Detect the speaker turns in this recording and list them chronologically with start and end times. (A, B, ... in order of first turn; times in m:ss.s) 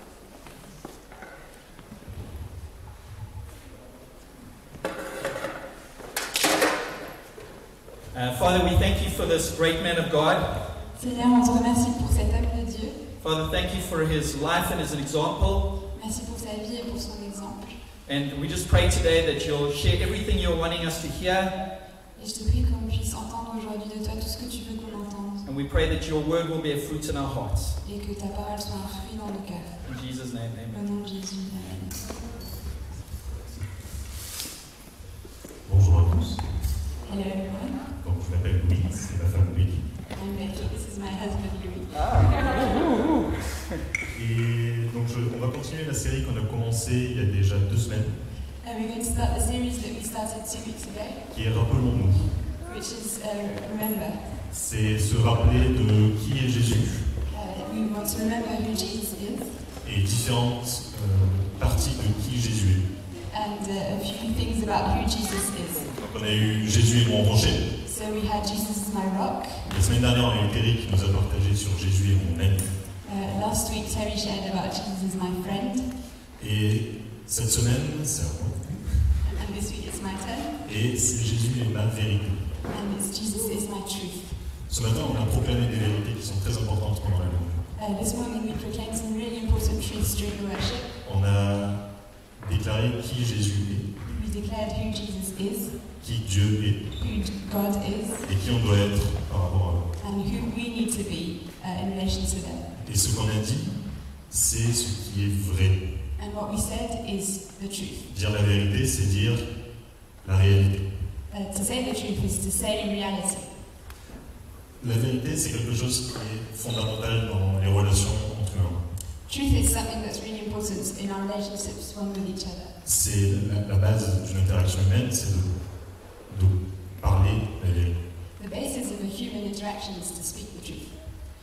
0:08.1-0:10.6 A
0:11.0-0:13.0 B
0:13.2-0:15.7 A
0:15.9-0:17.8 B
0:18.1-0:21.5 A
0:22.2-0:25.5 B
0:25.4-0:27.8 A
0:27.8-0:29.8 B
0:29.8-0:30.8 A
0:30.7-0:32.1 B
0:35.6-0:36.4 C
0:37.0-0:37.9 B
0:38.0-0:39.9 C
0:40.1-0:43.0 B
0:44.1-0:48.2 C
0:48.6-0:51.2 B
0:51.3-0:52.4 C
0:52.6-0:54.3 B
0:54.5-0:57.1 C
0:57.3-0:59.6 B
0:59.8-1:02.9 C
1:03.3-1:05.9 B
1:05.9-1:07.7 C
1:07.8-1:09.7 B
1:09.6-1:12.7 C
1:13.0-1:15.9 B
1:16.4-1:19.2 C
1:19.2-1:20.6 B
1:20.7-1:22.5 C
1:22.7-1:24.4 B
1:24.7-1:27.6 C
1:27.8-1:31.0 B
1:31.0-1:31.8 C
1:32.4-1:33.9 C
1:34.0-1:35.8 B
1:36.0-1:36.9 C
1:37.0-1:38.3 B
1:38.2-1:39.9 C
1:40.0-1:42.7 B
1:42.7-1:45.8 C
1:46.2-1:48.1 B
1:48.1-1:49.5 C
1:50.2-1:50.9 C
1:51.3-1:53.5 B
1:54.8-1:58.8 C
1:59.3-2:02.8 B
2:02.8-2:05.6 C
2:06.3-2:08.0 C
2:08.4-2:11.0 B